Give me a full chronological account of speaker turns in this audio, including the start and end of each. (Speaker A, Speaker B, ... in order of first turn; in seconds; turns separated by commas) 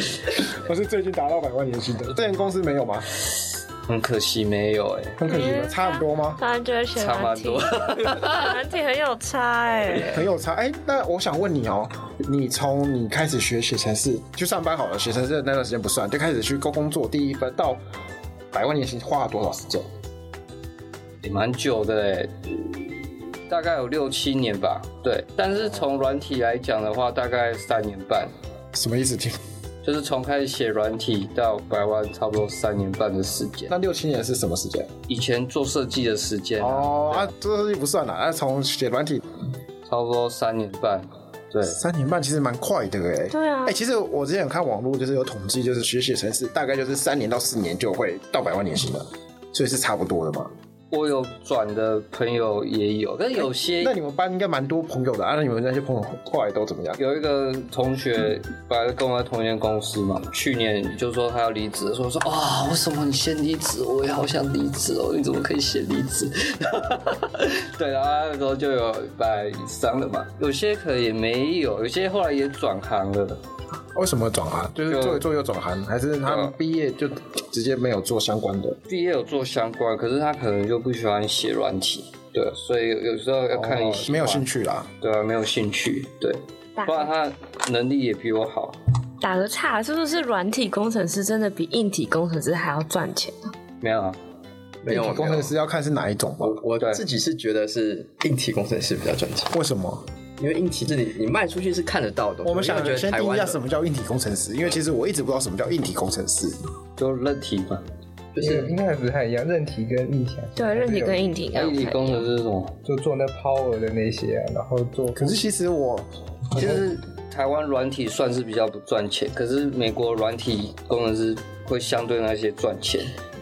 Speaker A: 0.3-3.0, Speaker B: 3.9-5.2, Speaker A: 5.2-6.4, Speaker C: 5.3-10.2, Speaker B: 7.0-8.6, Speaker A: 10.1-17.8, Speaker A: 18.5-19.9, Speaker B: 21.2-22.8, Speaker B: 23.5-28.3, Speaker A: 28.7-29.4, Speaker B: 29.8-33.7, Speaker A: 33.7-34.9, Speaker B: 35.1-37.3, Speaker A: 36.6-39.2, Speaker B: 39.9-41.8, Speaker A: 41.6-50.5, Speaker C: 43.3-43.8, Speaker B: 50.9-53.9, Speaker A: 53.8-57.0, Speaker B: 57.0-73.4, Speaker A: 73.9-78.8, Speaker B: 74.9-75.2, Speaker B: 76.3-76.5, Speaker B: 78.9-84.5, Speaker A: 83.5-84.9, Speaker B: 85.0-88.8, Speaker C: 86.8-87.1, Speaker C: 89.2-93.5, Speaker B: 93.8-94.2, Speaker D: 94.8-95.5, Speaker A: 94.9-96.6, Speaker D: 96.4-99.5, Speaker A: 99.5-100.0, Speaker D: 100.4-103.6, Speaker A: 102.4-106.6, Speaker B: 107.0-107.8, Speaker D: 108.3-108.8, Speaker E: 108.4-111.3, Speaker C: 110.5-112.2, Speaker B: 111.5-112.8, Speaker E: 112.8-115.3, Speaker A: 115.2-116.7, Speaker B: 116.5-123.1